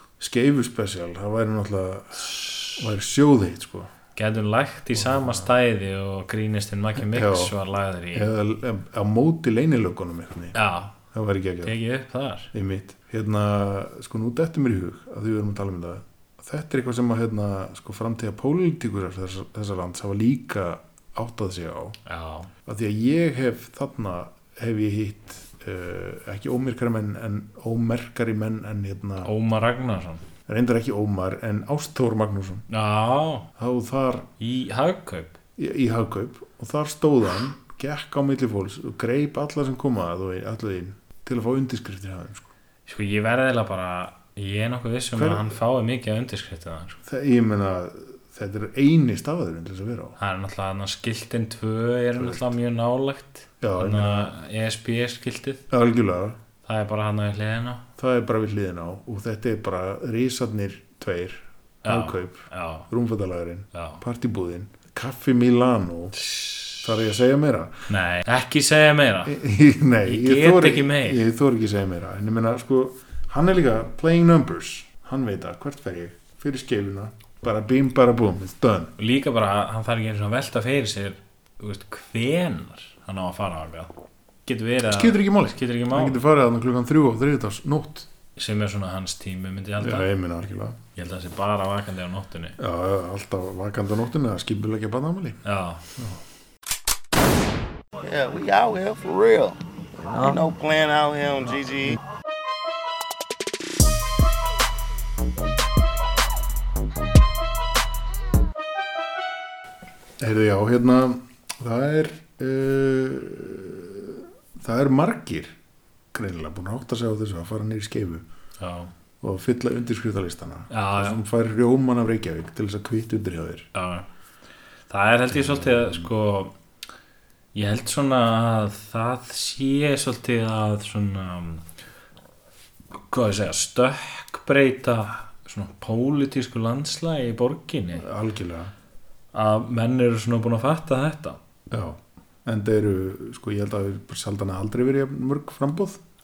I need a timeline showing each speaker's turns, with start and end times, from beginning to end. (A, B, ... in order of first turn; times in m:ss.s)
0:00.2-0:03.9 A
0:02.3-0:02.7 B
0:04.2-0:08.3 B
0:05.0-0:05.5 A
0:07.1-0:07.6 A
0:08.1-0:10.6 A
0:10.6-0:11.0 B
0:11.1-0:11.8 A
0:11.6-0:12.5 B
0:12.5-0:22.0 A
0:22.1-0:22.5 B
0:22.6-0:29.3 A
0:29.2-0:30.2 B
0:30.5-0:32.6 A
0:32.7-0:33.5 B
0:33.6-0:34.3 A
0:34.4-0:35.4 B
0:35.6-0:42.5 A
0:42.9-0:47.0 B
0:45.2-0:45.5 A
0:47.0-0:50.2 A
0:50.2-0:55.6 B
0:52.2-0:52.5 A
0:53.6-0:54.3 A
0:55.7-0:56.4 A
0:56.6-0:57.9 B
0:58.0-1:06.2 A
1:01.8-1:02.9 B
1:03.7-1:04.0 B
1:06.2-1:06.9 B
1:06.8-1:07.9 A
1:07.9-1:09.4 B
1:09.3-1:18.9 A
1:10.0-1:11.2 B
1:19.0-1:23.9 B
1:24.5-1:26.2 B
1:24.9-1:28.1 A
1:28.4-1:30.1 B
1:29.8-1:30.8 A
1:31.0-1:32.6 B
1:32.6-1:35.4 A
1:35.4-1:35.9 B
1:38.0-1:42.0 C
1:50.2-1:55.6 A
1:56.1-1:58.2 A
1:58.6-1:58.9 B
1:59.2-2:03.7 A
2:00.7-2:01.2 B
2:03.7-2:04.1 B
2:04.9-2:06.5 B
2:05.3-2:06.0 A
2:07.5-2:11.6 B
2:12.9-2:18.1 B
2:18.0-2:18.7 A
2:19.3-2:21.4 B
2:21.7-2:26.0 A